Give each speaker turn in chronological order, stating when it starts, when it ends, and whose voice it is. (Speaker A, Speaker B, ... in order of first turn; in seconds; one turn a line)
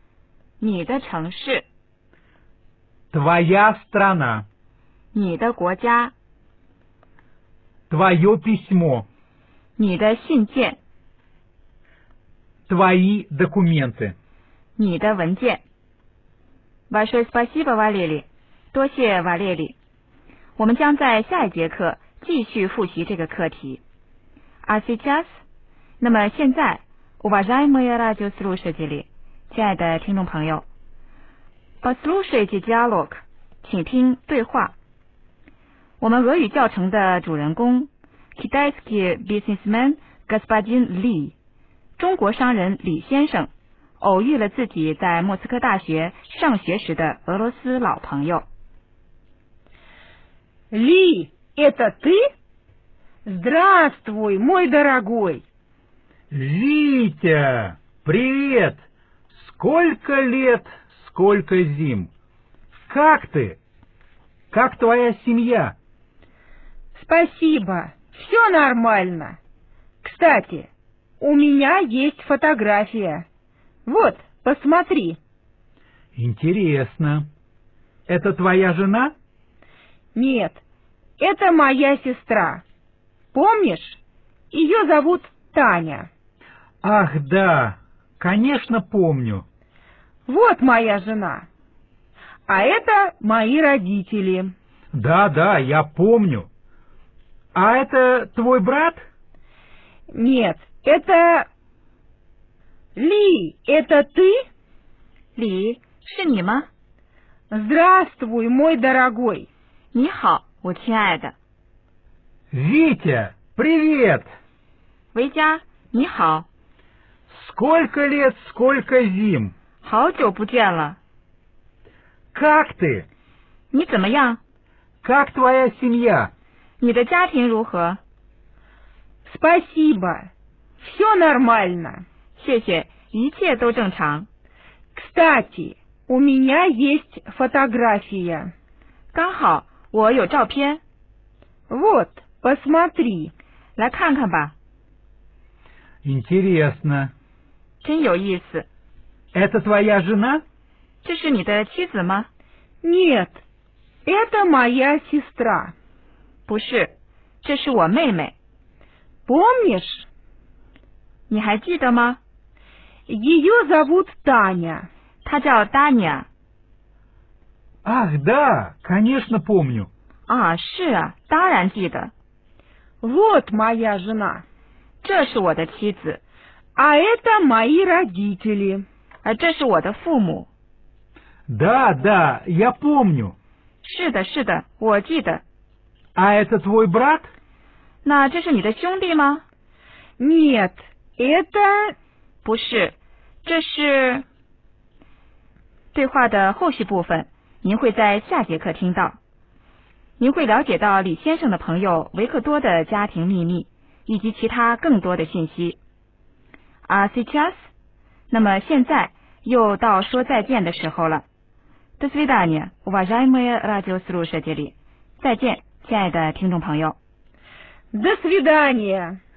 Speaker A: 0.6-1.6
Speaker B: 3.1-4.5
Speaker A: 5.1-6.1
Speaker B: 7.9-9.1
Speaker A: 9.8-10.8
Speaker B: 12.7-14.2
Speaker A: 14.8-15.6
Speaker A: 16.9-19.8
Speaker A: 20.6-23.8
Speaker A: 24.6-25.4
Speaker A: 26.0-30.6
Speaker A: 31.8-34.7
Speaker A: 36.0-41.4
Speaker A: 42.0-48.5
Speaker C: 50.7-52.2
Speaker C: 53.2-55.4
Speaker B: 56.3-58.8
Speaker B: 59.4-62.1
Speaker B: 62.9-63.6
Speaker B: 64.5-65.8
Speaker C: 67.0-69.4
Speaker C: 70.0-70.7
Speaker C: 71.2-73.2
Speaker C: 73.9-75.2
Speaker B: 76.1-77.3
Speaker B: 78.1-79.1
Speaker C: 80.1-80.6
Speaker C: 81.2-82.6
Speaker C: 83.3-84.0
Speaker C: 84.5-86.1
Speaker B: 86.8-89.5
Speaker C: 90.3-91.5
Speaker C: 92.5-94.5
Speaker B: 94.9-96.5
Speaker B: 97.5-99.0
Speaker C: 100.1-101.5
Speaker C: 103.0-104.4
Speaker A: 105.4-106.7
Speaker C: 107.5-109.5
Speaker A: 109.9-111.3
Speaker B: 112.5-114.3
Speaker A: 115.1-116.5
Speaker B: 117.3-119.5
Speaker A: 119.8-121.0
Speaker B: 122.3-123.1
Speaker A: 123.7-124.4
Speaker B: 125.0-126.3
Speaker A: 126.8-128.0
Speaker C: 129.2-130.3
Speaker C: 130.8-132.0
Speaker A: 132.4-134.3
Speaker C: 135.0-138.5
Speaker A: 139.1-140.8
Speaker C: 141.7-143.3
Speaker A: 143.8-144.5
Speaker B: 146.0-147.1
Speaker A: 147.8-148.7
Speaker B: 149.3-150.4
Speaker A: 151.0-152.3
Speaker C: 152.8-153.4
Speaker C: 154.1-155.7
Speaker A: 156.5-156.9
Speaker A: 157.4-158.3
Speaker C: 159.3-160.1
Speaker A: 161.3-162.2
Speaker C: 163.1-164.9
Speaker A: 165.2-166.3
Speaker B: 167.8-169.9
Speaker A: 170.3-172.1
Speaker C: 173.0-174.4
Speaker A: 175.0-176.2
Speaker C: 176.8-178.8
Speaker A: 179.2-180.5
Speaker B: 181.5-183.4
Speaker A: 183.8-185.4
Speaker B: 186.2-187.3
Speaker A: 188.0-189.4
Speaker C: 190.2-191.9
Speaker A: 192.4-194.2
Speaker A: 195.9-199.2
Speaker A: 200.2-205.8
Speaker A: 206.9-207.6
Speaker A: 208.3-211.2
Speaker A: 212.0-217.0
Speaker C: 217.9-219.2